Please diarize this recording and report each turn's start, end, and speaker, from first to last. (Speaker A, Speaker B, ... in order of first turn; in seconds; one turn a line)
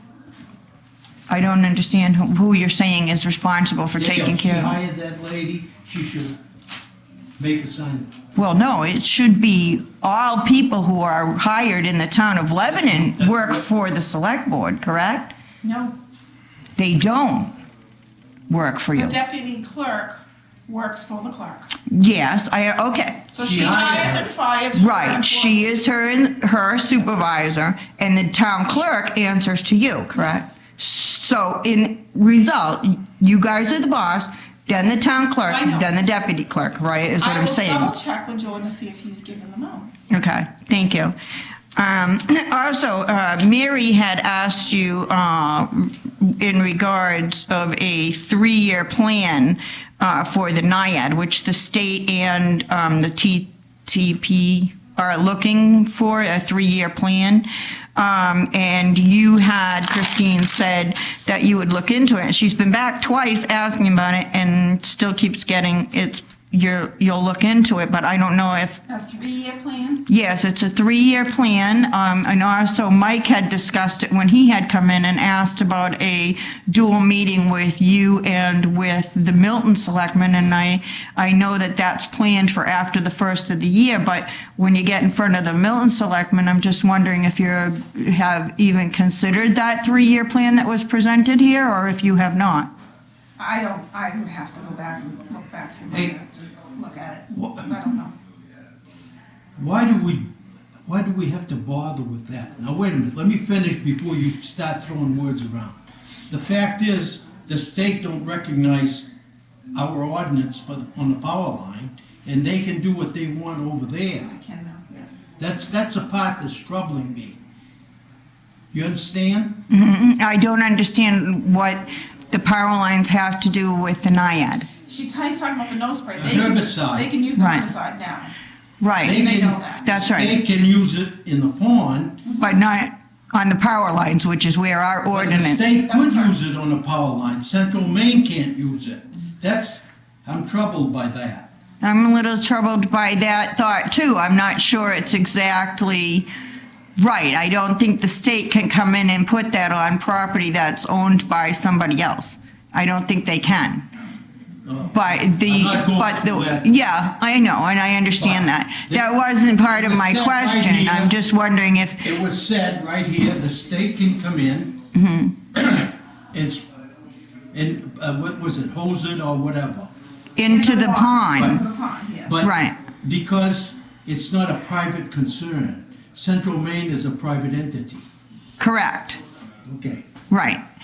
Speaker A: 1.3-4.8
Speaker B: 3.9-6.4
Speaker B: 7.4-8.1
Speaker A: 8.3-15.3
Speaker B: 12.7-13.6
Speaker C: 15.6-16.0
Speaker A: 16.8-17.5
Speaker A: 18.5-19.2
Speaker C: 18.9-21.7
Speaker A: 21.9-23.3
Speaker C: 23.3-25.7
Speaker B: 23.4-24.3
Speaker A: 24.7-37.9
Speaker C: 28.6-29.1
Speaker C: 30.1-30.6
Speaker C: 35.4-35.9
Speaker C: 37.2-39.9
Speaker A: 40.1-41.1
Speaker A: 41.8-68.8
Speaker C: 68.9-70.0
Speaker A: 70.1-92.7
Speaker C: 93.4-98.1
Speaker B: 97.3-97.7
Speaker B: 99.6-100.3
Speaker B: 100.8-109.1
Speaker B: 109.7-114.3
Speaker C: 114.2-115.1
Speaker B: 115.4-117.4
Speaker B: 118.7-119.6
Speaker A: 119.7-124.7
Speaker C: 124.9-128.3
Speaker B: 126.2-127.1
Speaker A: 127.3-127.7
Speaker A: 128.8-129.2
Speaker B: 129.0-132.2
Speaker C: 129.1-129.8
Speaker A: 129.8-130.4
Speaker A: 132.4-135.7
Speaker B: 135.1-141.5
Speaker C: 135.7-136.3
Speaker A: 141.8-146.3
Speaker A: 147.0-153.9
Speaker B: 154.6-156.7
Speaker A: 154.9-162.1
Speaker B: 158.2-161.1
Speaker B: 162.0-164.8
Speaker A: 164.9-165.6
Speaker B: 165.6-166.6
Speaker B: 167.5-169.9
Speaker A: 170.4-171.6
Speaker C: 170.4-172.4
Speaker B: 172.2-178.0
Speaker A: 172.4-172.8
Speaker A: 178.6-179.2
Speaker B: 179.7-180.1
Speaker A: 180.3-180.6